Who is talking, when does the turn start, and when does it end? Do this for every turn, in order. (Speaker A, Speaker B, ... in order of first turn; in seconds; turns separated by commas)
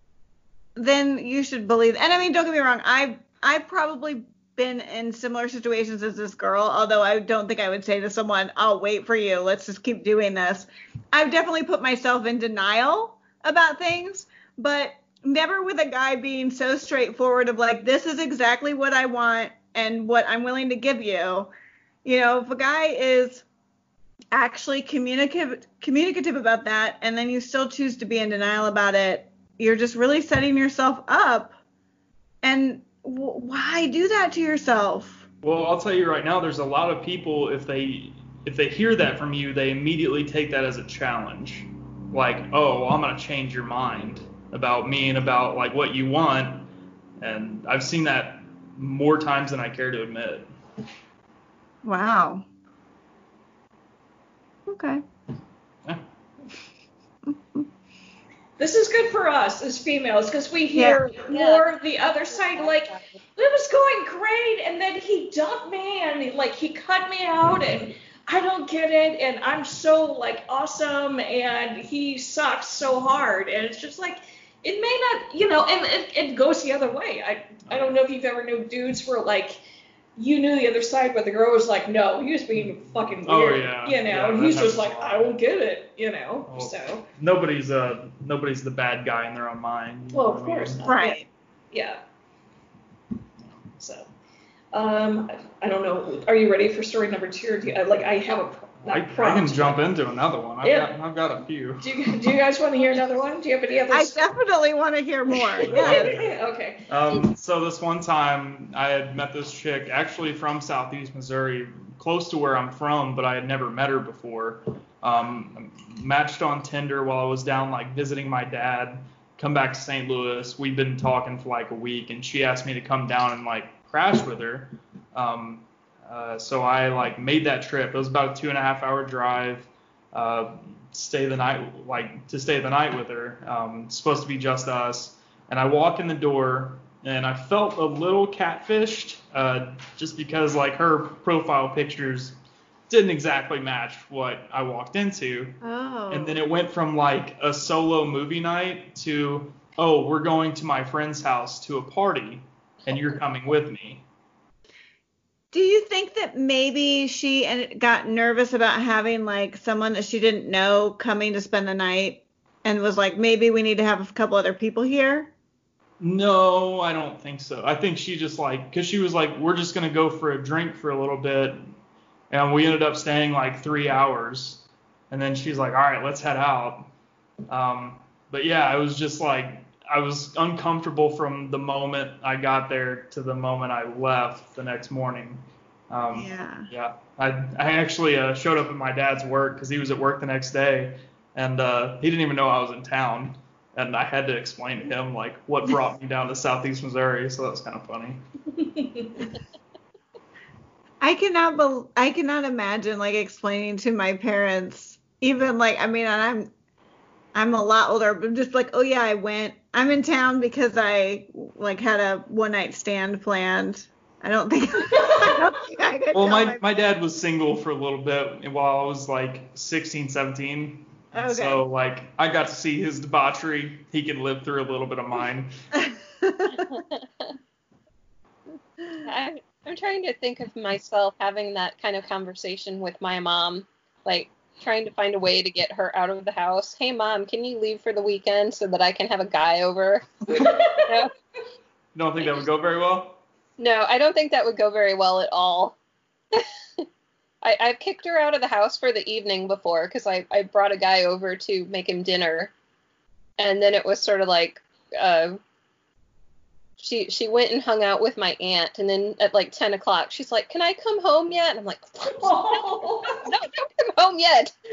Speaker A: 0.8-21.5, Speaker A: 22.0-23.4, Speaker A: 24.3-31.6, Speaker A: 32.4-35.2, Speaker B: 35.4-50.5, Speaker A: 51.8-52.5, Speaker A: 54.7-55.0, Speaker C: 58.6-79.6, Speaker A: 60.8-61.0, Speaker D: 61.3-63.2, Speaker B: 77.7-77.9, Speaker C: 80.2-87.1, Speaker B: 83.2-85.3, Speaker B: 86.5-90.8, Speaker C: 90.1-91.2, Speaker A: 90.9-91.3, Speaker C: 91.7-92.0, Speaker C: 93.8-94.1, Speaker C: 94.7-99.8, Speaker B: 98.8-102.0, Speaker C: 100.6-101.0, Speaker C: 101.8-104.2, Speaker A: 103.9-106.2, Speaker C: 105.3-107.3, Speaker B: 105.6-106.3, Speaker B: 106.9-142.4, Speaker B: 142.9-145.6, Speaker A: 145.6-146.4, Speaker B: 146.1-154.1, Speaker A: 155.5-165.3, Speaker B: 166.0-171.6, Speaker B: 172.3-176.9, Speaker B: 177.5-198.2, Speaker A: 186.1-186.7, Speaker C: 198.5-199.3, Speaker A: 201.0-206.5, Speaker A: 207.3-216.6, Speaker C: 214.9-215.5, Speaker B: 216.1-225.5, Speaker A: 221.1-221.7, Speaker A: 225.8-226.8, Speaker D: 226.7-227.1, Speaker D: 229.0-240.3, Speaker C: 240.3-240.9, Speaker D: 240.8-241.1, Speaker B: 241.9-243.2, Speaker D: 243.6-245.8, Speaker D: 246.3-246.9, Speaker D: 247.4-252.5, Speaker D: 253.4-255.4, Speaker D: 256.8-264.5, Speaker C: 262.1-263.3